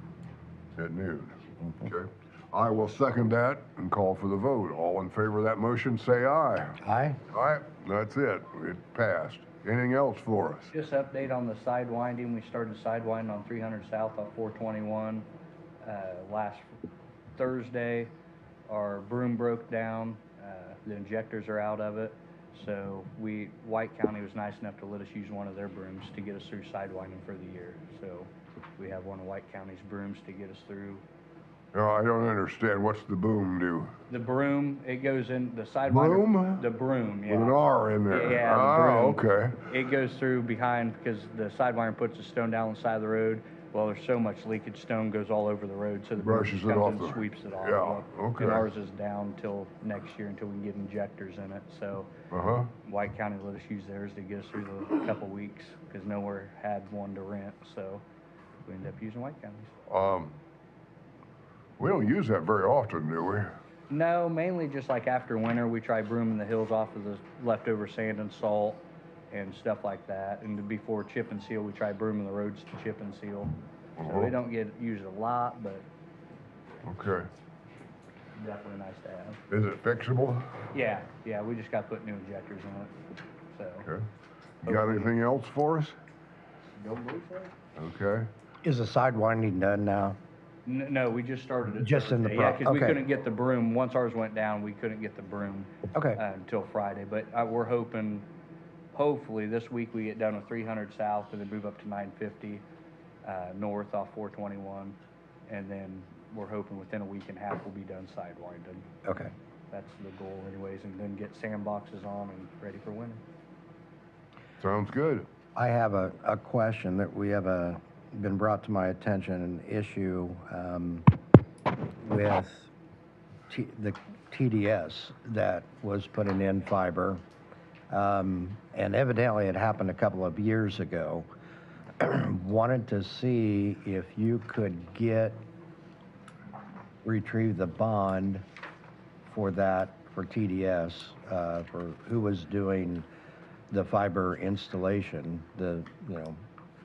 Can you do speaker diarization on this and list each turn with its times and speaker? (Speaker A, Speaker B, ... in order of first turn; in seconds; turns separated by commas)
Speaker A: 0.8-6.8, Speaker B: 6.8-7.2, Speaker A: 7.3-10.7, Speaker C: 10.7-15.3, Speaker C: 15.8-16.7, Speaker C: 17.4-18.1, Speaker C: 18.7-31.0, Speaker A: 31.7-33.9, Speaker C: 34.1-37.6, Speaker A: 35.9-36.7, Speaker A: 37.3-39.6, Speaker C: 38.1-52.1, Speaker A: 46.2-48.7, Speaker A: 52.3-52.7, Speaker C: 52.8-58.0, Speaker C: 58.7-59.7, Speaker A: 59.9-60.3, Speaker A: 61.8-63.5, Speaker C: 63.9-75.8, Speaker A: 74.0-74.4, Speaker A: 76.8-77.3, Speaker C: 78.3-79.4, Speaker A: 79.5-80.5, Speaker C: 80.7-82.9, Speaker C: 83.5-83.9, Speaker A: 84.6-86.0, Speaker C: 84.7-85.1, Speaker C: 86.8-87.5, Speaker A: 87.8-88.3, Speaker B: 88.6-90.2, Speaker C: 90.7-98.3, Speaker B: 91.8-93.0, Speaker B: 95.9-96.2, Speaker C: 98.9-102.6, Speaker C: 103.2-105.0, Speaker C: 105.5-108.9, Speaker B: 109.0-109.3, Speaker C: 109.7-113.2, Speaker A: 114.6-115.3, Speaker B: 115.6-121.1, Speaker B: 122.0-122.7, Speaker B: 123.5-127.2, Speaker B: 127.9-131.3, Speaker B: 132.0-135.4, Speaker B: 137.0-138.4, Speaker B: 139.3-143.1, Speaker B: 143.7-146.4